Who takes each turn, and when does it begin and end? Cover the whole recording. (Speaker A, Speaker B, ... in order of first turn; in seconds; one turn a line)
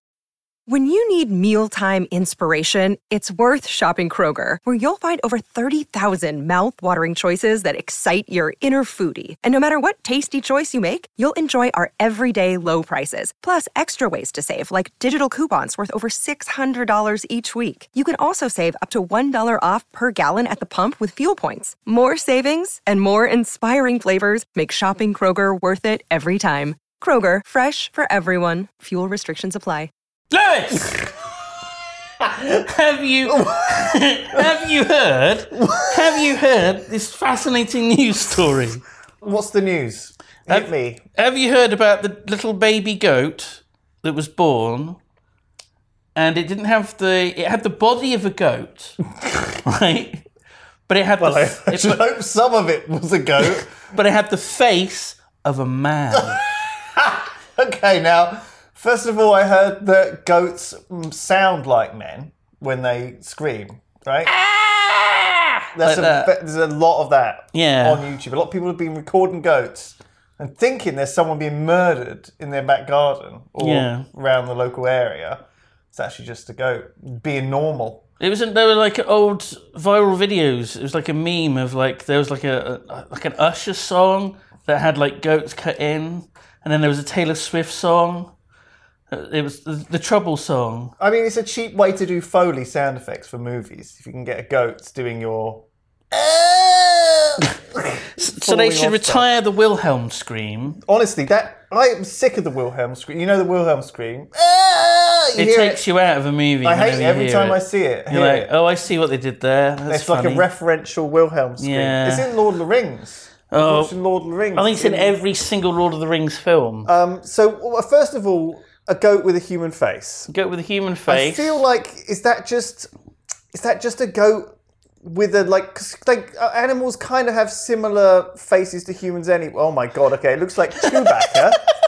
Speaker A: 0.7-29.9
Speaker B: 30.3-31.0
Speaker B: 32.3-38.8
Speaker C: 33.3-34.6
Speaker C: 35.5-36.4
Speaker C: 39.2-41.0
Speaker B: 40.5-45.0
Speaker B: 46.1-49.0
Speaker B: 49.6-50.2
Speaker B: 50.9-52.0
Speaker C: 51.2-53.9
Speaker B: 53.6-56.4
Speaker C: 56.1-64.3
Speaker B: 64.3-66.3
Speaker C: 65.7-75.4
Speaker B: 67.5-68.1
Speaker B: 73.6-74.1
Speaker C: 75.9-78.0
Speaker B: 78.2-88.3
Speaker B: 89.1-90.9
Speaker C: 91.0-99.3
Speaker B: 98.2-100.8
Speaker C: 100.8-105.8
Speaker B: 105.4-110.5
Speaker C: 106.6-108.5
Speaker C: 109.9-115.2
Speaker B: 111.6-112.3
Speaker B: 113.5-113.9
Speaker B: 114.5-116.9
Speaker C: 116.9-120.3
Speaker B: 120.3-121.6
Speaker C: 121.1-122.9
Speaker C: 123.5-131.7